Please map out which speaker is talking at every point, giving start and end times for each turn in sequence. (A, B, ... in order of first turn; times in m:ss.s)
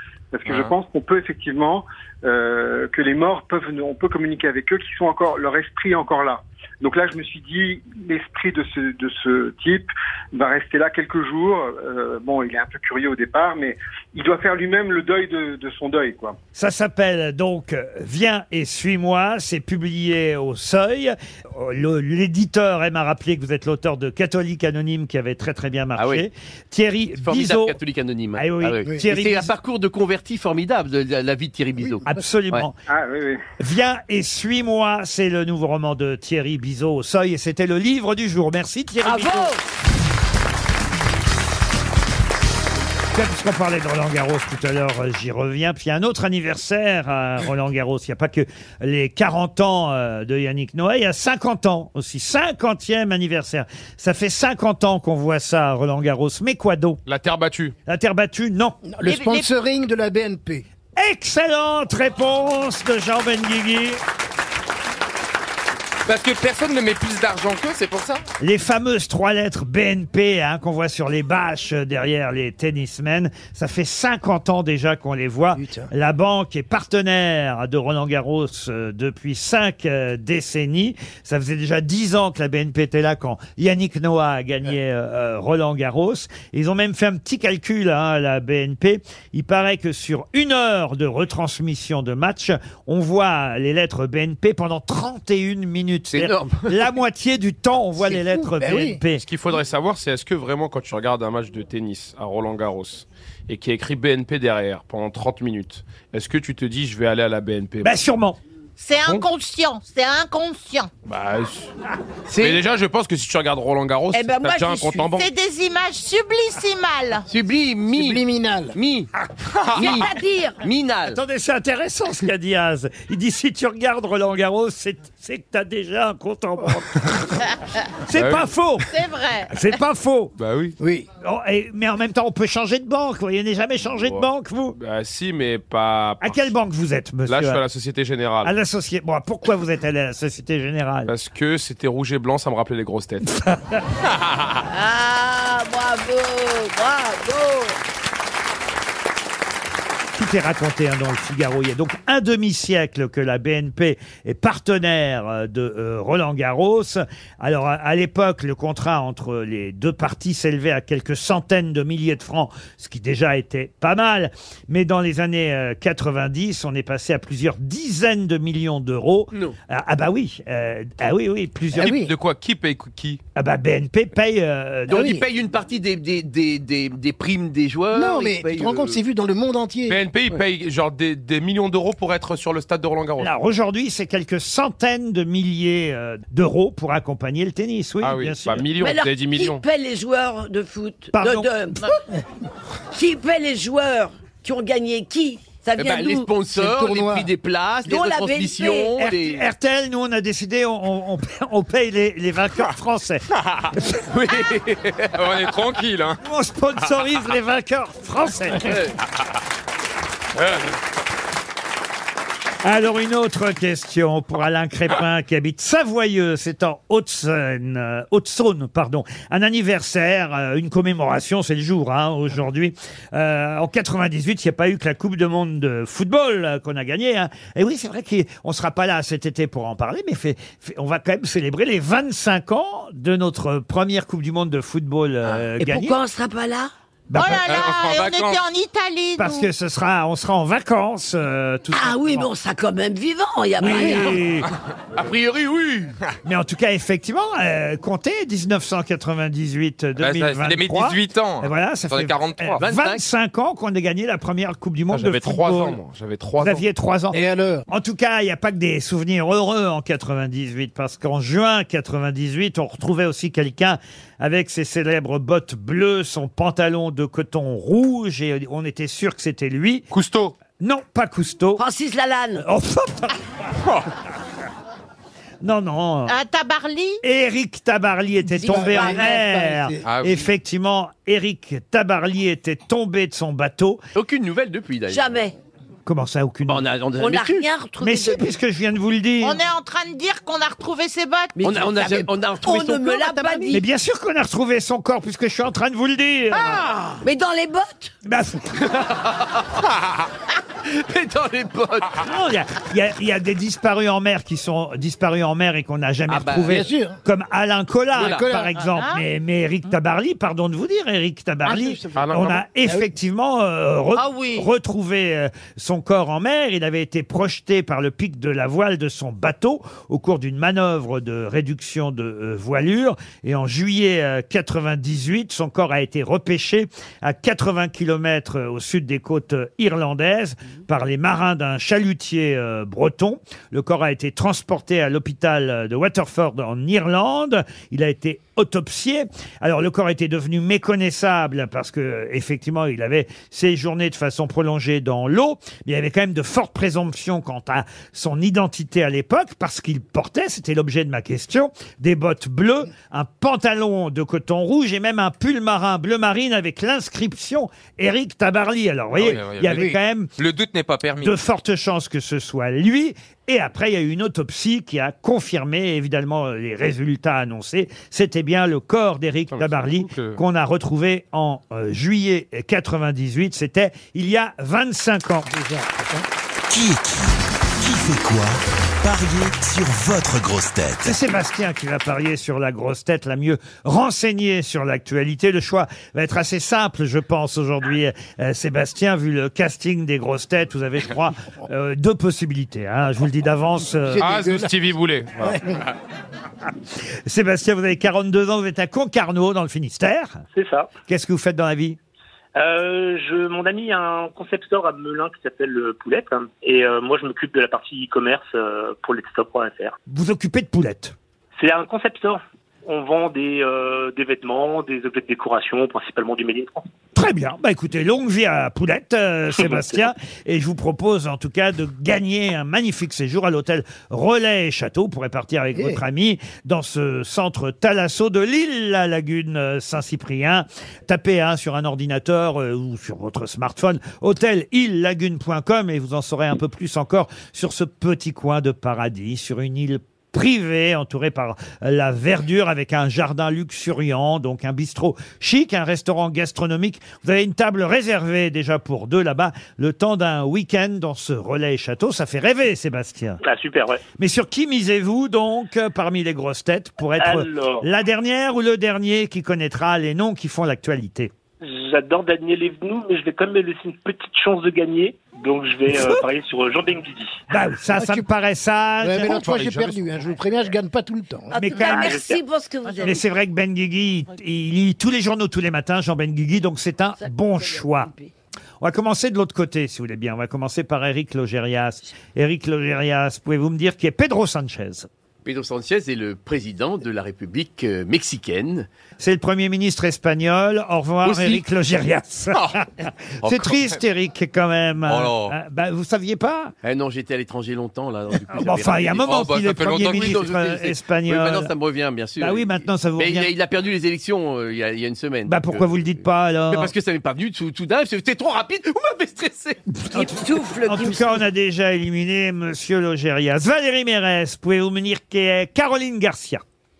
0:00.3-0:16.4 A
0:16.6-0:27.8 B
0:26.0-0:26.3 C
0:27.2-0:32.6 C
0:28.3-0:29.5 B
0:32.0-0:32.8 B
0:32.9-0:33.4 A
0:33.6-0:39.5 B
0:39.0-0:39.6 D
0:43.1-0:57.0 B
0:57.0-0:57.7 E
0:57.9-0:58.8 B
0:58.8-1:00.6 F
0:59.0-0:59.5 G
1:01.0-1:04.0 B
1:06.0-1:08.2 H
1:08.4-1:39.2 B
1:15.6-1:15.9 F
1:36.1-1:36.8 C
1:38.0-1:39.0 F
1:39.2-1:48.0 E
1:47.8-1:48.4 B
1:48.8-1:50.9 G
1:51.0-1:51.7 E
1:52.3-1:52.6 C
1:52.4-1:55.3 E
1:54.1-1:55.1 D
1:55.1-1:57.2 G
1:57.3-1:58.2 C
1:57.9-1:58.8 F
1:58.7-1:59.1 C
1:59.7-2:01.2 C
1:59.7-2:00.0 E
1:59.8-2:00.6 D
2:01.0-2:07.4 B
2:08.1-2:08.9 B
2:08.1-2:08.5 E
2:08.9-2:09.7 G
2:09.5-2:10.4 B
2:10.4-2:10.8 E
2:10.8-2:11.1 F
2:11.2-2:14.8 B
2:14.8-2:16.5 E
2:16.2-2:17.6 B
2:17.3-2:18.5 E
2:18.4-2:21.1 B
2:21.1-2:23.3 E
2:23.4-2:23.8 B
2:24.3-2:24.6 E
2:24.7-2:27.8 D
2:30.1-2:52.0 B
2:51.7-2:52.1 F
2:51.9-2:53.2 E
2:53.3-2:55.2 B
2:54.9-2:59.0 C
2:54.9-2:55.2 F
2:57.9-3:00.0 F
2:59.9-3:03.3 E
3:03.2-3:08.7 B
3:08.0-3:09.6 E
3:08.8-3:11.8 D
3:11.1-3:11.5 B
3:12.9-3:16.3 D
3:15.8-3:19.4 C
3:16.5-3:17.3 F
3:17.9-3:18.9 D
3:19.0-3:23.2 B
3:24.1-3:25.4 C
3:25.1-3:26.2 H
3:26.2-3:28.8 B
3:28.6-3:29.0 C
3:32.6-3:56.0 B
3:55.6-3:56.7 D
3:57.1-3:57.5 B
3:57.1-3:59.5 G
3:57.3-3:58.4 H
3:59.2-4:02.3 B
4:01.7-4:04.2 D
4:03.6-4:04.5 B
4:05.0-4:05.9 C
4:06.2-4:15.8 B
4:10.0-4:12.6 H
4:12.6-4:13.0 C
4:14.9-4:16.6 E
4:16.4-4:29.9 B
4:17.1-4:17.6 F
4:29.9-4:30.4 E
4:30.6-4:31.6 B
4:31.6-4:32.4 D
4:32.4-4:33.2 B
4:35.4-4:36.1 B
4:36.1-4:37.0 G
4:37.0-4:43.8 B
4:38.4-4:39.1 D
4:38.4-4:39.9 F
4:39.9-4:40.3 H
4:44.0-4:45.1 C
4:44.9-4:45.3 D
4:45.9-4:46.7 B
4:46.5-4:47.5 C
4:47.0-4:48.3 D
4:47.8-4:49.4 B
4:49.2-4:51.4 G
4:51.4-4:53.6 D
4:51.4-4:53.6 C
4:53.5-4:56.6 B
4:56.3-4:57.0 C
4:57.0-4:57.9 D
4:58.0-4:58.6 B
4:58.6-5:00.1 C
5:00.6-5:02.0 C
5:02.0-6:00.1 B
5:06.1-5:06.7 C
5:06.5-5:07.0 F
5:08.0-5:08.3 C
5:08.0-5:08.6 F
5:08.5-5:09.0 G
5:11.4-5:11.8 C
5:12.0-5:12.4 E
5:14.0-5:14.5 G
5:59.0-6:01.2 H
5:59.4-5:59.8 F
6:01.0-6:15.3 B
6:09.3-6:10.2 E
6:15.3-6:16.0 F
6:16.5-6:21.0 I
6:20.8-6:34.1 B
6:33.9-6:34.6 F
6:34.0-6:35.4 E
6:35.2-6:35.6 F
6:37.0-6:40.2 B
6:40.3-6:40.7 J
6:40.8-6:41.8 B
6:42.3-6:49.8 J
6:49.9-6:51.0 B
6:51.4-6:56.6 J
6:57.0-7:33.2 B
7:33.2-7:33.8 J
7:34.0-7:41.1 B
7:37.0-7:37.7 J
7:41.4-7:47.2 J
7:47.3-7:49.4 B
7:47.7-7:48.0 F
7:48.8-7:51.4 F
7:49.2-7:50.0 E
7:51.3-7:53.0 D
7:51.4-7:52.0 B
7:51.6-7:52.2 J
7:52.8-7:57.9 B
7:57.0-7:58.1 D
7:58.6-8:04.9 B
8:05.2-8:08.7 C
8:09.0-8:16.5 B
8:11.0-8:11.4 C
8:13.2-8:13.8 H
8:14.9-8:15.3 H
8:16.6-8:25.7 C
8:18.4-8:21.5 B
8:19.0-8:20.2 H
8:22.2-8:23.3 B
8:25.3-8:26.7 B
8:26.5-8:29.6 C
8:29.8-8:36.4 B
8:29.9-8:31.2 D